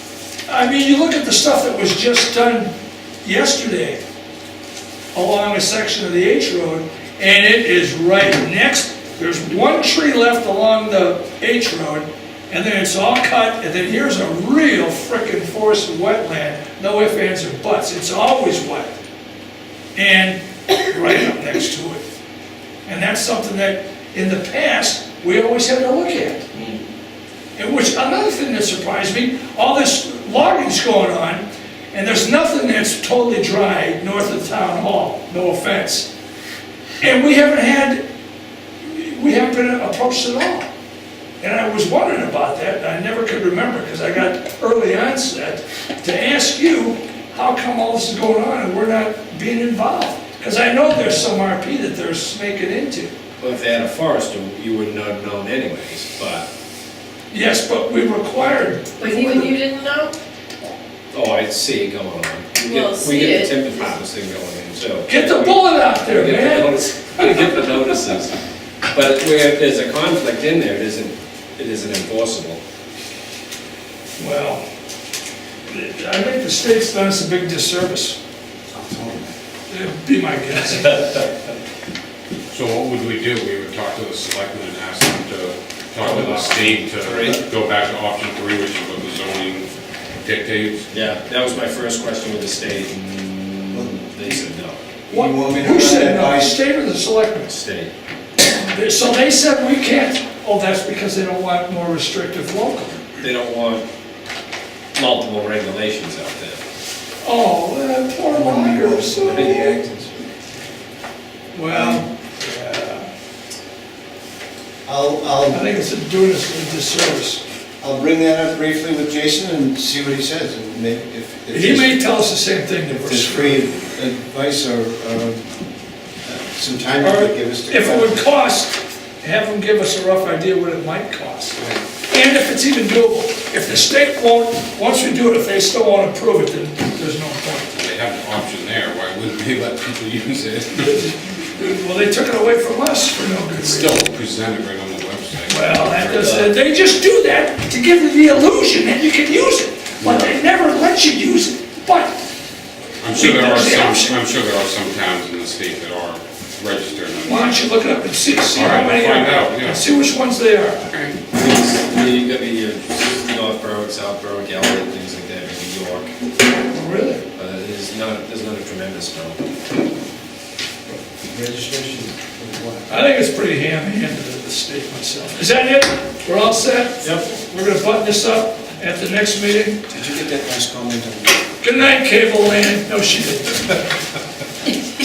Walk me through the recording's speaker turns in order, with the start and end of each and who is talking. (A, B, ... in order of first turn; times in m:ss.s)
0:00.5-0:02.7 A
0:03.2-0:04.0 A
0:05.1-0:19.0 A
0:20.0-0:22.0 A
0:22.9-0:26.7 A
0:27.6-0:36.1 A
0:37.0-0:38.0 A
0:38.8-0:40.7 A
0:41.4-0:53.1 A
0:53.4-0:56.5 B
0:57.3-0:59.6 A
0:59.0-1:00.1 C
1:01.1-1:08.3 B
1:02.6-1:03.8 C
1:05.1-1:08.0 A
1:08.9-1:12.6 B
1:14.2-1:14.6 A
1:15.7-1:18.2 A
1:18.7-1:19.3 D
1:19.7-1:21.2 A
1:20.7-1:21.3 B
1:22.5-1:29.7 E
1:26.0-1:27.4 D
1:30.2-1:30.9 E
1:30.9-1:34.8 B
1:33.7-1:34.4 D
1:35.1-1:36.6 D
1:35.1-1:37.5 A
1:37.5-1:37.9 B
1:38.4-1:43.1 A
1:43.2-1:43.8 B
1:45.0-1:46.6 B
1:47.2-1:49.8 A
1:48.3-1:50.3 D
1:49.3-1:49.7 B
1:51.5-1:53.1 A
1:51.7-1:52.0 D
1:54.8-1:55.6 D
1:55.5-1:57.4 A
1:57.8-2:02.0 D
2:01.5-2:03.6 A
2:02.9-2:05.4 D
2:06.2-2:08.2 D
2:07.0-2:17.7 A
2:17.7-2:21.1 E
2:21.0-2:24.0 A
2:23.6-2:26.3 E
2:25.5-2:32.2 A
2:26.2-2:26.5 B
2:30.0-2:30.4 E
2:33.0-2:37.7 E
2:33.1-2:34.2 A
2:37.2-2:40.8 A
2:38.5-2:39.9 E
2:40.9-2:41.2 E
2:41.3-2:46.1 B
2:46.7-2:47.2 A
2:47.4-2:49.5 B
2:50.9-2:52.9 D
2:52.9-2:59.8 A
2:59.9-3:01.4 D
3:01.6-3:03.8 A